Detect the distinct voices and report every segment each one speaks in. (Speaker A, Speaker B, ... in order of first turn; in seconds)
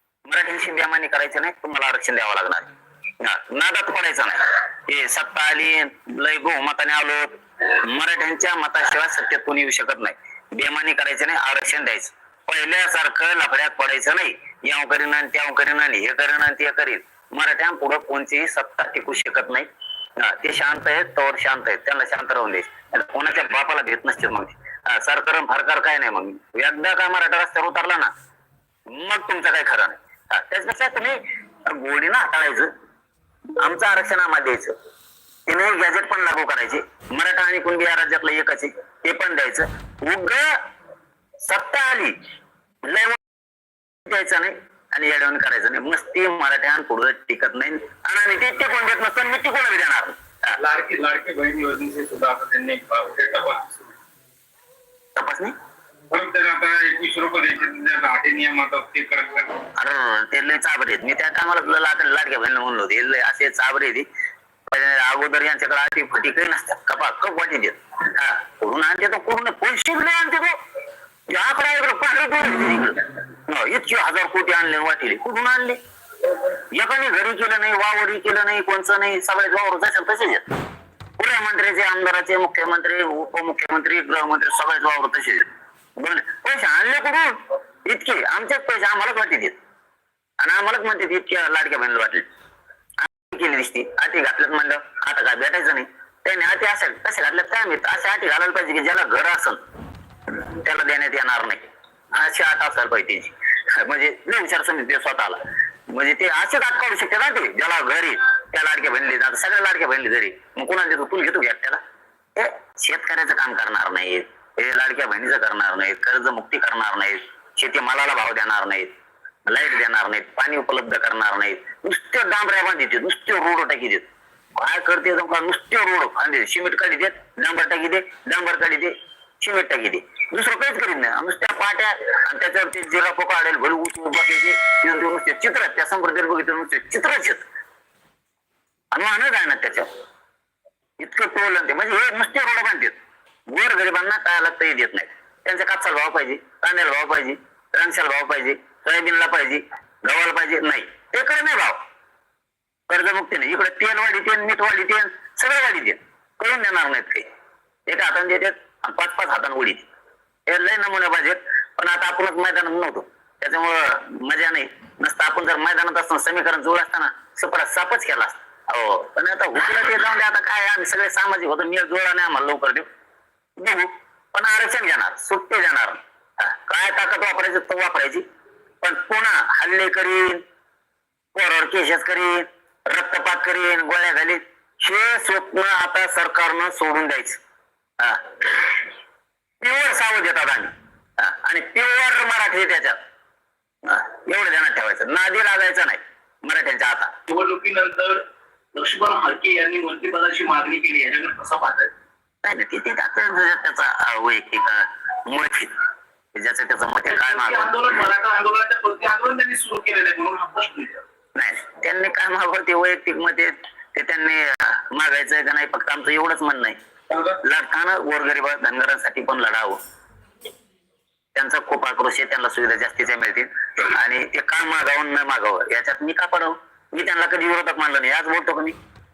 Speaker A: 0.3-2.7, 3.2-28.1, 28.9-32.7, 33.6-34.7, 35.5-40.5, 41.4-42.2, 42.8-43.2, 44.0-50.6, 55.1-55.5, 59.8-64.1, 64.7-70.6, 71.3-75.8, 76.7-80.5, 81.2-87.3, 87.8-89.6, 90.4-92.3, 93.0-99.6, 100.4-105.4, 105.9-111.8, 112.3-118.9, 119.5-137.4, 138.9-139.9, 141.0-142.9, 143.5-151.8, 152.9-157.2, 157.9-159.8, 160.5-172.8, 173.6-178.2, 178.8-180.4, 181.3-187.4, 188.0-188.4, 189.6-193.0, 193.8-197.1, 202.4-205.7, 206.3-207.7, 211.3-216.8, 217.4-219.8, 221.3-228.8
Speaker B: 50.6-53.9, 56.1-59.5, 217.1-217.4
Speaker C: 197.3-198.2, 198.7-201.9, 207.1-211.0